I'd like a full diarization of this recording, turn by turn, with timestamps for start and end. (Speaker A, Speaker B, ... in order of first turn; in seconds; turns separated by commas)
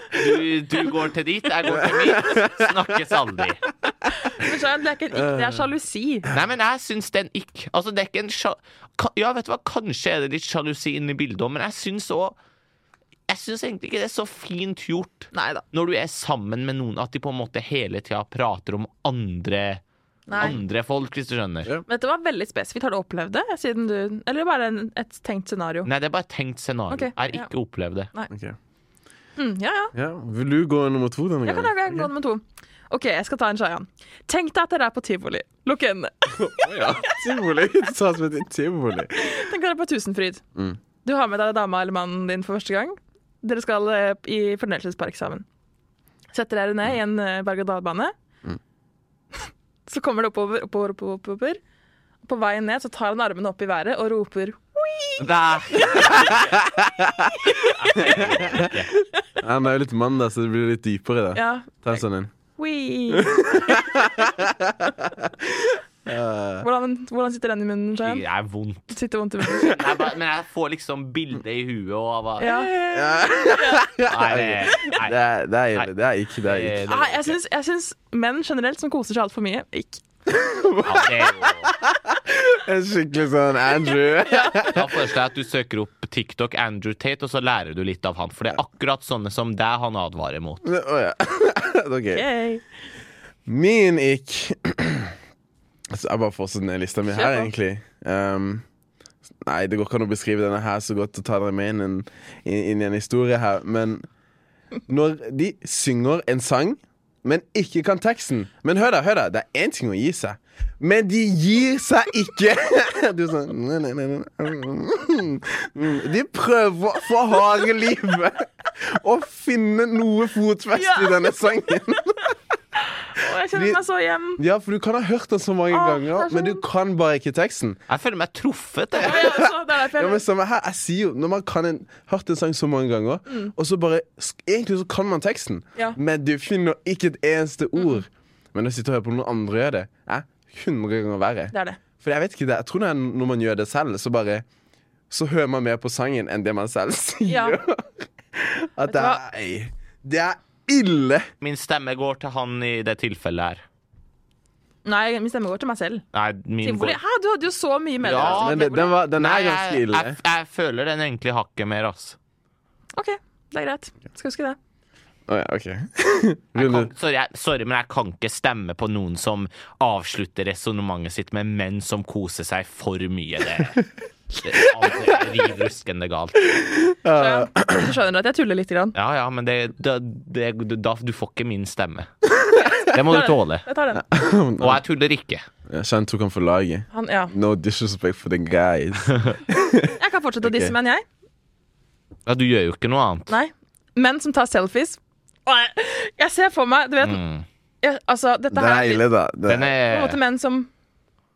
Speaker A: 0.1-3.6, Speaker B: 1.8-2.7, Speaker C: 4.1-6.3, Speaker B: 5.1-5.6, Speaker A: 6.3-12.4, Speaker A: 13.3-19.8, Speaker C: 15.3-15.6, Speaker C: 20.3-20.6, Speaker A: 20.4-21.7, Speaker C: 21.9-25.9, Speaker A: 25.9-28.1, Speaker C: 26.9-27.5, Speaker B: 28.3-28.6, Speaker C: 29.4-29.9, Speaker B: 29.9-32.1, Speaker C: 31.4-37.2, Speaker B: 36.4-39.2, Speaker C: 39.1-40.4, Speaker C: 41.0-45.5, Speaker C: 46.3-48.1, Speaker C: 49.9-51.6, Speaker C: 52.2-55.2, Speaker A: 55.2-56.4, Speaker C: 55.7-56.3, Speaker B: 56.0-58.8, Speaker C: 57.4-58.2, Speaker A: 57.9-58.9, Speaker B: 59.4-62.3, Speaker C: 61.4-62.0, Speaker C: 62.6-64.3, Speaker B: 63.1-66.7, Speaker C: 66.6-68.2, Speaker A: 68.0-69.0, Speaker C: 68.9-69.8, Speaker A: 69.5-72.6, Speaker C: 72.4-73.8, Speaker B: 72.7-76.8, Speaker A: 74.0-75.2, Speaker A: 76.4-77.4, Speaker C: 76.9-80.0, Speaker B: 80.3-84.9, Speaker A: 80.8-81.7, Speaker C: 84.2-84.7, Speaker A: 84.7-90.7, Speaker B: 90.6-92.2, Speaker C: 92.1-92.6, Speaker B: 93.5-95.1, Speaker B: 95.9-98.6, Speaker C: 97.1-97.5, Speaker B: 99.5-104.1, Speaker B: 104.9-122.3, Speaker C: 120.7-121.3, Speaker C: 123.1-124.4, Speaker B: 123.5-123.8, Speaker B: 124.4-127.8, Speaker C: 125.7-126.6, Speaker A: 127.9-129.3, Speaker C: 129.0-130.2, Speaker B: 129.0-144.4, Speaker C: 133.3-133.5, Speaker C: 137.8-138.0, Speaker C: 141.5-141.8, Speaker B: 145.1-151.3, Speaker C: 147.3-147.6, Speaker C: 148.9-149.2, Speaker A: 151.4-153.6, Speaker C: 154.8-156.0, Speaker A: 156.1-157.0, Speaker C: 156.6-158.9, Speaker A: 158.0-162.2, Speaker B: 158.1-160.2, Speaker C: 162.9-164.6, Speaker B: 165.3-166.9, Speaker A: 166.6-173.8, Speaker A: 174.4-176.4, Speaker B: 176.5-177.9, Speaker C: 177.1-178.9, Speaker A: 178.9-182.1, Speaker C: 182.7-184.0, Speaker A: 182.9-183.7, Speaker B: 184.0-184.8, Speaker A: 184.6-185.4, Speaker B: 185.7-190.7, Speaker C: 186.9-187.3, Speaker C: 190.0-191.1, Speaker A: 192.3-193.3, Speaker C: 193.3-197.2, Speaker A: 197.0-197.4, Speaker C: 197.8-199.0, Speaker B: 198.5-199.7, Speaker A: 199.5-200.2, Speaker C: 199.9-200.7